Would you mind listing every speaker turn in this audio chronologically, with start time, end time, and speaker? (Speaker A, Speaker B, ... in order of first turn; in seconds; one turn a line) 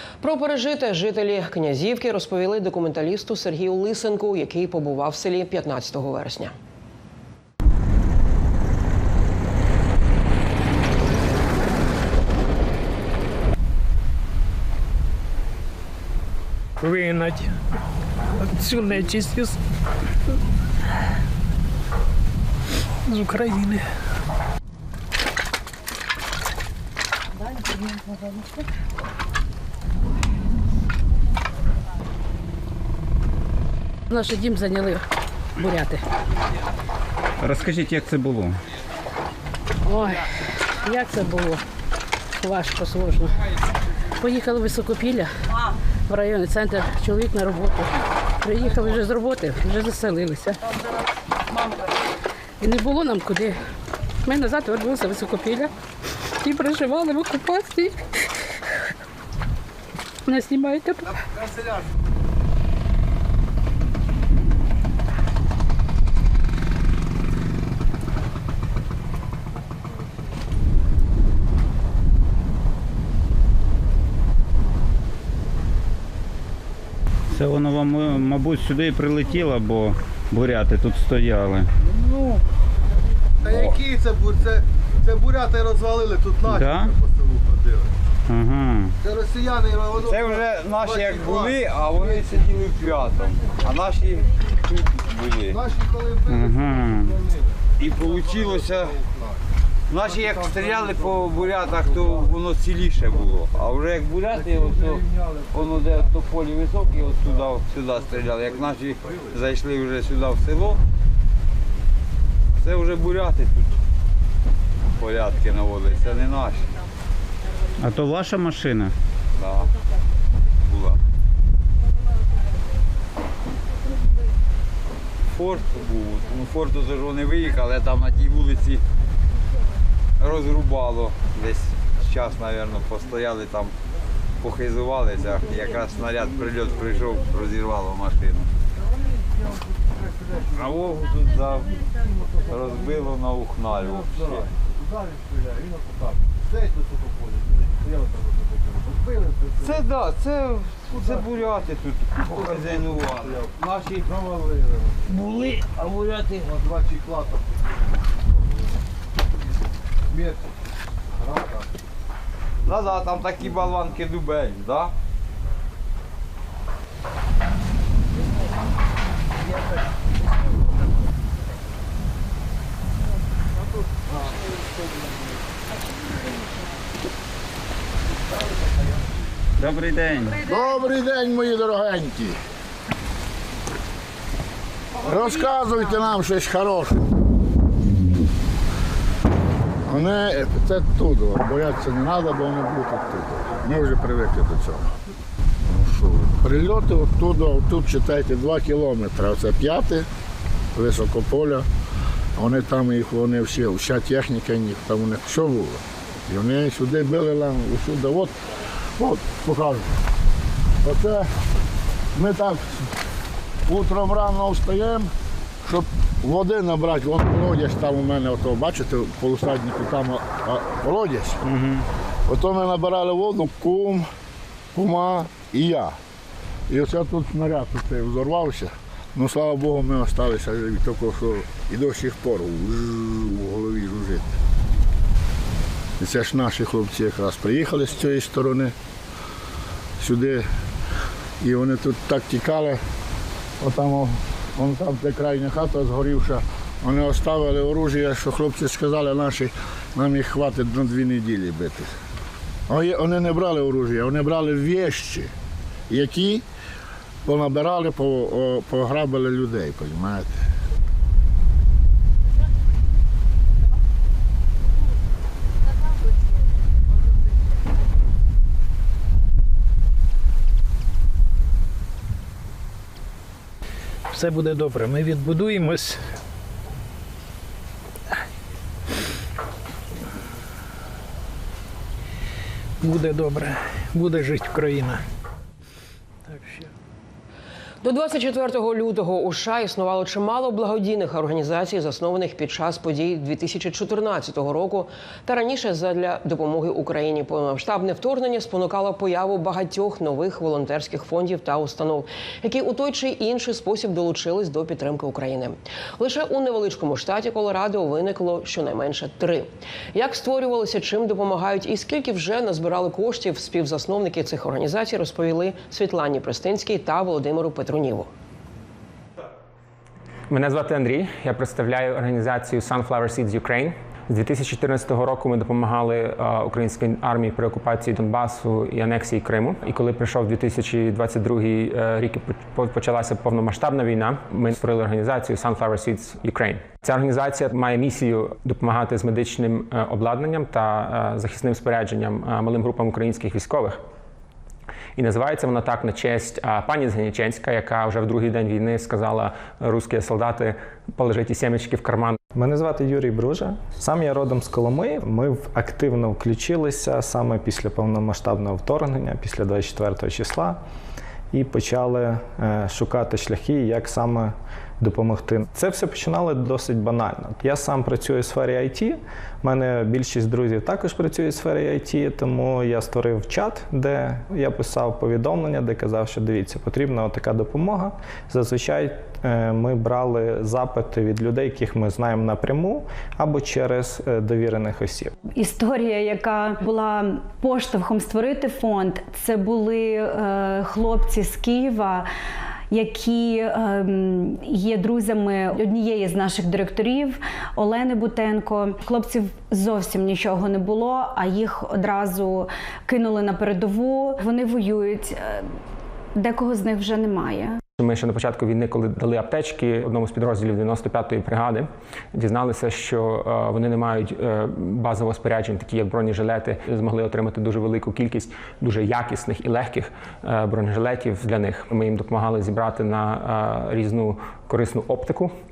Speaker A: 0.2-6.5
Speaker B: 16.8-17.5
Speaker B: 18.4-19.6
Speaker B: 23.1-23.9
Speaker C: 34.1-35.0
Speaker C: 35.6-36.0
Speaker D: 37.4-38.6
Speaker C: 39.9-40.3
Speaker C: 40.8-41.6
Speaker C: 42.4-43.4
Speaker C: 44.2-45.3
Speaker C: 46.1-50.6
Speaker C: 52.6-53.6
Speaker C: 54.3-55.7
Speaker C: 56.4-58.0
Speaker C: 60.3-61.1
Speaker E: 61.4-61.9
Speaker D: 77.3-81.7
Speaker E: 81.8-82.4
Speaker E: 83.4-87.9
Speaker D: 86.5-86.9
Speaker D: 88.3-89.0
Speaker E: 89.0-92.5
Speaker F: 90.0-95.6
Speaker E: 95.5-99.4
Speaker D: 96.3-97.2
Speaker F: 97.8-99.0
Speaker F: 99.9-110.8
Speaker E: 100.0-102.4
Speaker E: 104.3-106.1
Speaker E: 107.2-109.4
Speaker F: 112.6-113.7
Speaker F: 114.9-116.7
Speaker D: 117.8-118.9
Speaker F: 119.4-119.7
Speaker F: 120.6-121.0
Speaker F: 125.3-128.8
Speaker F: 130.2-133.7
Speaker F: 134.4-138.5
Speaker E: 138.8-141.1
Speaker F: 140.5-141.9
Speaker E: 141.9-143.2
Speaker F: 142.5-144.6
Speaker E: 143.8-149.9
Speaker F: 149.6-153.9
Speaker E: 150.9-151.5
Speaker E: 152.2-155.3
Speaker F: 155.1-156.5
Speaker E: 156.3-158.7
Speaker E: 160.1-160.4
Speaker E: 161.2-161.7
Speaker F: 162.7-164.9
Speaker D: 179.6-180.4
Speaker G: 180.5-182.4
Speaker G: 185.0-187.1
Speaker G: 189.9-194.9
Speaker G: 195.7-200.1
Speaker G: 200.8-201.7
Speaker G: 202.4-208.4
Speaker G: 209.0-209.9
Speaker G: 210.8-211.3
Speaker G: 212.2-212.9
Speaker G: 213.7-215.1
Speaker G: 215.7-221.4
Speaker D: 221.4-221.8
Speaker G: 222.3-224.1
Speaker G: 224.8-226.0
Speaker G: 226.7-234.3
Speaker G: 236.0-238.8
Speaker G: 240.0-240.5
Speaker G: 241.4-242.8
Speaker G: 243.6-251.9
Speaker G: 252.7-255.3
Speaker G: 255.9-256.4
Speaker G: 257.2-260.4
Speaker B: 274.1-276.0
Speaker B: 282.8-285.0
Speaker B: 286.3-286.7
Speaker A: 287.8-318.1
Speaker H: 320.3-343.8
Speaker H: 345.0-352.2
Speaker I: 352.3-360.6
Speaker I: 361.3-385.1
Speaker J: 385.3-392.1
Speaker J: 392.7-405.5
Speaker J: 406.2-407.6
Speaker H: 407.8-425.3